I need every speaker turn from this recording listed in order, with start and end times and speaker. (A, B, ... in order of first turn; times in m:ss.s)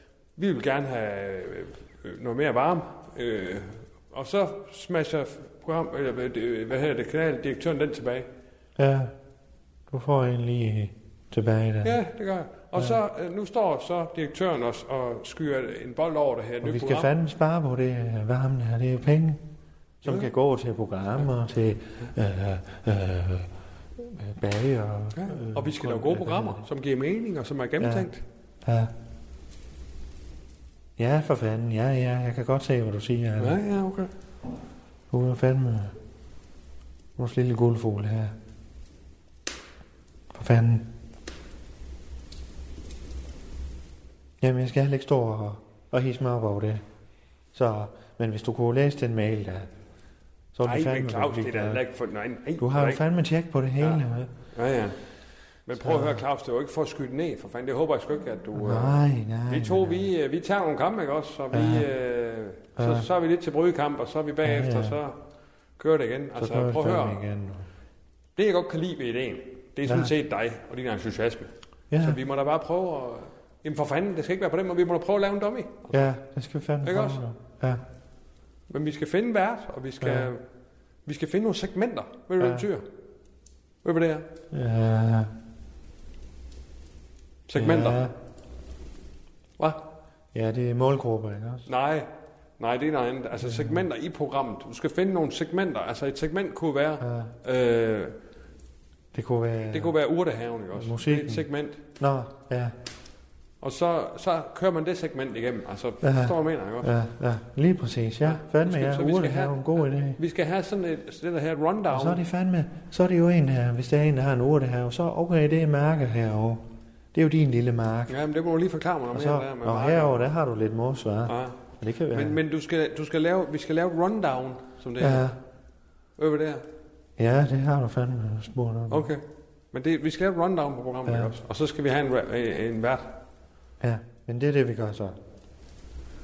0:00.4-0:08.3 A
0:08.8-0:09.1 B
0:09.9-0:12.0 B
0:11.8-0:17.1 A
0:12.7-0:13.0 B
0:16.6-0:19.4 B
0:20.0-0:26.6 B
0:20.0-0:20.3 A
0:25.1-0:28.2 A
0:27.8-0:28.1 B
0:28.6-0:28.9 B
0:31.0-0:33.6 B
0:33.4-0:34.1 A
0:35.1-0:36.0 B
0:37.2-0:38.3 B
0:40.3-0:40.9 B
0:44.4-0:46.8 B
0:47.5-0:49.7 B
0:50.5-0:51.8 B
0:50.6-0:53.0 A
0:52.6-0:54.3 B
0:54.5-0:55.0 A
0:55.6-1:05.2 A
0:55.8-0:56.2 B
0:58.5-1:00.0 B
1:01.5-1:01.9 B
1:02.8-1:03.1 B
1:04.4-1:05.0 B
1:05.8-1:07.2 A
1:06.4-1:07.7 B
1:08.4-1:16.1 A
1:09.8-1:10.1 B
1:11.9-1:12.2 B
1:15.9-1:17.8 B
1:16.8-1:17.2 A
1:18.7-1:20.4 A
1:20.0-1:20.3 B
1:21.0-1:22.9 A
1:22.4-1:22.7 B
1:23.8-1:24.3 A
1:24.5-1:25.3 B
1:27.5-1:28.0 A
1:27.5-1:28.1 B
1:29.6-1:29.9 A
1:30.3-1:31.7 B
1:31.7-1:32.1 A
1:32.6-1:38.2 A
1:33.4-1:33.8 B
1:37.0-1:37.3 B
1:39.1-1:39.9 B
1:39.7-1:41.8 A
1:40.7-1:41.4 B
1:42.0-1:42.7 B
1:43.6-1:46.9 A
1:46.0-1:50.2 B
1:48.2-1:52.2 A
1:51.9-1:58.1 B
1:58.1-2:00.3 A
1:59.1-2:02.4 B
2:01.2-2:01.6 A
2:02.1-2:05.4 A
2:05.0-2:05.4 B
2:06.2-2:06.6 A
2:07.2-2:09.1 B
2:08.9-2:13.2 A
2:11.1-2:11.3 B
2:13.8-2:15.2 B